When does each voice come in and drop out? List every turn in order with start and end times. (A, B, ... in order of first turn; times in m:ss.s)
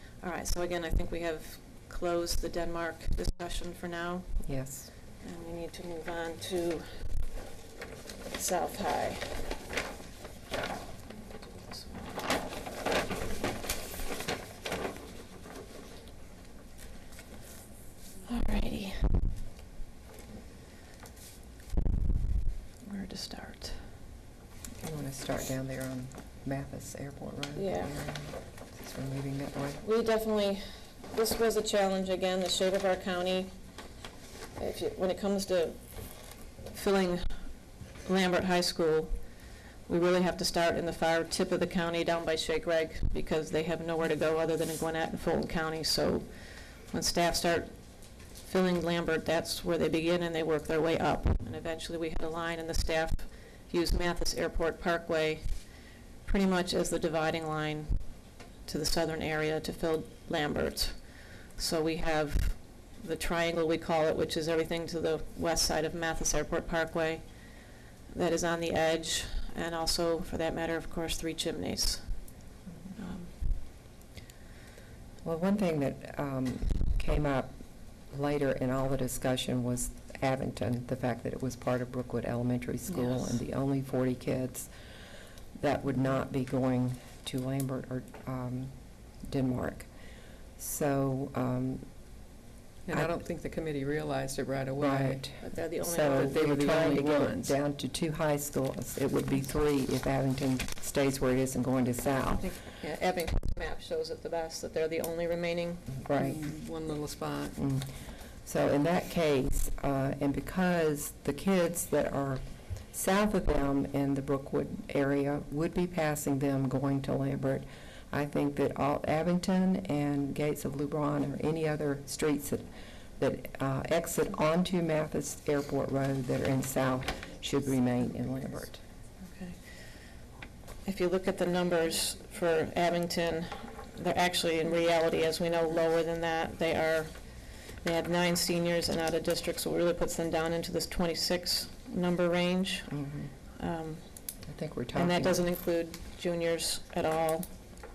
0:00.2-0:04.5 A
0:04.4-0:04.9 B
0:05.2-0:07.1 A
0:08.3-0:09.4 A
0:11.2-0:12.3 A
0:18.3-0:19.1 A
0:22.8-0:23.8 A
0:24.8-0:29.8 B
0:27.6-0:27.9 A
0:29.8-0:33.5 A
0:34.6-0:35.8 A
0:36.7-0:37.4 A
0:38.0-0:39.2 A
0:39.9-0:55.7 A
0:56.2-1:07.4 A
1:08.1-1:13.3 A
1:15.2-1:24.7 B
1:22.9-1:23.3 A
1:25.6-1:29.9 B
1:30.6-1:31.8 B
1:32.8-1:35.2 C
1:34.8-1:42.5 B
1:35.4-1:37.0 A
1:36.2-1:37.6 C
1:42.4-1:45.9 A
1:46.0-1:46.4 B
1:46.2-1:47.6 C
1:47.6-1:52.4 B
1:52.9-2:08.8 B
2:09.2-2:09.6 A
2:10.8-2:23.0 A
2:22.9-2:23.3 B
2:23.6-2:24.0 A
2:24.5-2:25.4 B
2:25.0-2:27.6 A